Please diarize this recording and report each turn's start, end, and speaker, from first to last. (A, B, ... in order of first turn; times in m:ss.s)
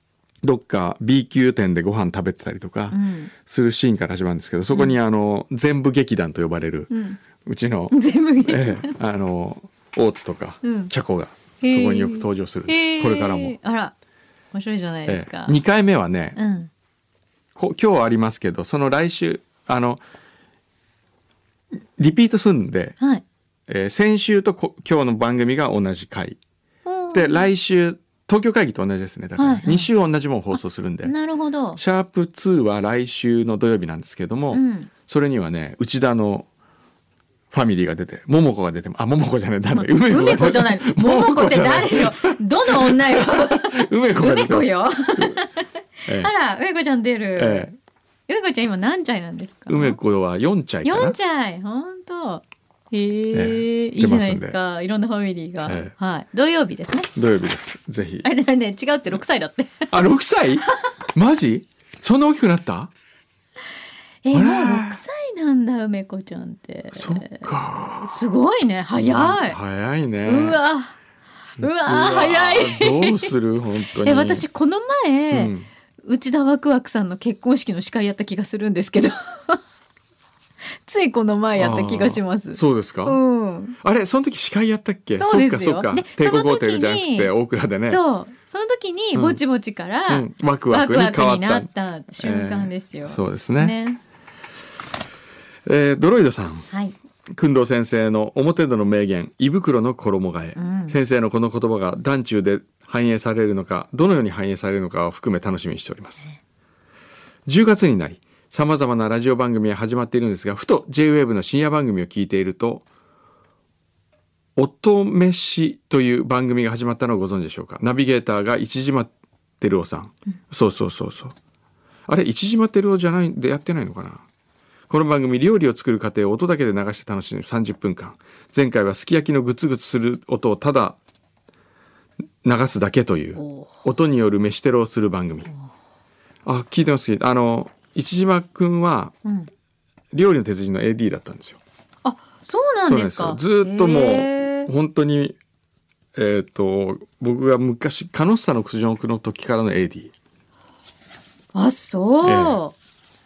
0:00.4-0:13.6 A
0:02.9-0:03.3 B
0:06.9-0:07.2 B
0:07.9-0:09.0 B
0:10.6-0:10.9 B
0:11.6-0:13.9 B
0:14.5-0:15.6 B
0:15.1-0:16.4 A
0:16.4-0:16.7 B
0:17.6-0:20.0 A
0:22.0-0:23.0 A
0:23.7-0:26.4 A
0:26.8-0:27.5 B
0:27.1-0:31.1 A
0:29.4-0:29.9 B
0:31.0-0:31.8 B
0:31.8-0:36.5 A
0:34.5-0:34.9 B
0:37.5-0:45.4 A
0:39.7-0:47.7 B
0:47.4-0:47.8 A
0:48.3-0:50.0 B
0:49.7-0:51.2 A
0:50.8-0:57.1 B
0:53.3-0:54.6 A
0:55.6-0:55.9 A
0:57.2-0:58.3 A
0:58.2-0:59.9 B
0:59.9-1:02.9 A
1:04.2-1:09.6 B
1:04.3-1:05.0 A
1:07.0-1:08.2 A
1:09.0-1:10.6 A
1:10.3-1:11.0 B
1:11.6-1:13.3 B
1:11.6-1:14.4 A
1:14.0-1:15.5 B
1:15.3-1:15.7 A
1:16.0-1:19.6 B
1:20.7-1:23.8 B
1:21.6-1:23.2 A
1:23.8-1:28.0 A
1:25.1-1:27.3 B
1:27.9-1:34.0 B
1:29.2-1:29.4 A
1:30.1-1:33.8 A
1:35.7-1:36.7 A
1:37.3-1:46.3 A
1:40.6-1:41.0 B
1:47.5-1:52.8 A
1:54.6-2:01.4 A
2:02.1-2:04.2 A
2:04.9-2:11.0 A
2:12.4-2:15.5 A
2:13.4-2:13.8 B
2:16.4-2:19.1 A
2:19.2-2:19.5 B
2:20.1-2:21.6 A
2:22.0-2:24.7 B
2:22.8-2:25.4 A
2:26.2-2:30.1 A
2:31.5-2:32.8 B
2:32.2-2:32.6 A